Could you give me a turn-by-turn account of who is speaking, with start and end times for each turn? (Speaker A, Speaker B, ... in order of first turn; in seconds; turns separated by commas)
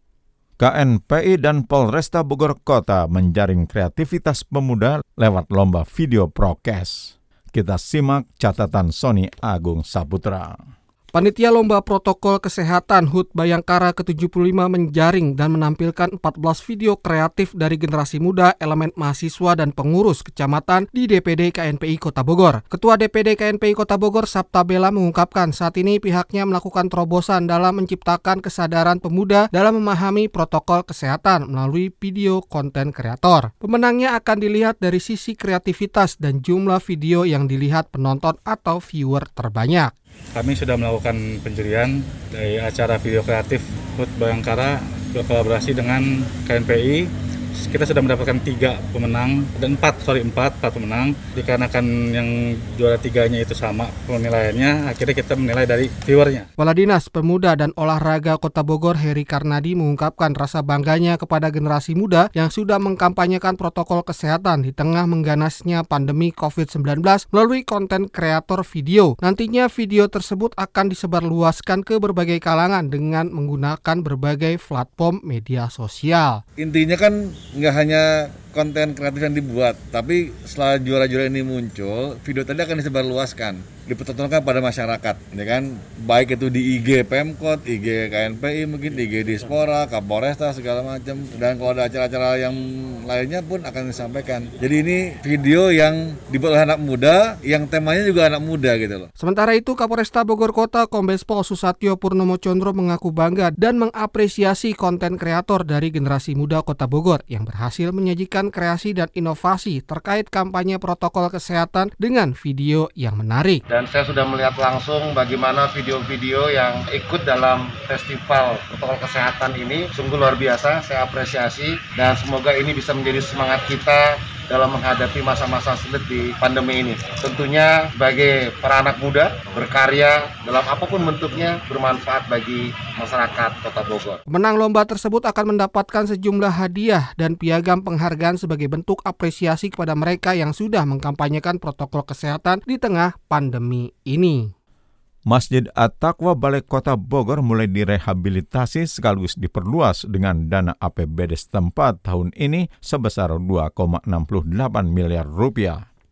Speaker A: 0.6-10.6, Speaker B: 11.1-39.9, Speaker C: 40.4-47.1, Speaker C: 47.6-56.5, Speaker B: 56.6-76.4, Speaker D: 76.6-99.1, Speaker B: 99.2-113.6, Speaker E: 113.7-134.2, Speaker B: 134.3-144.5, Speaker A: 145.3-155.8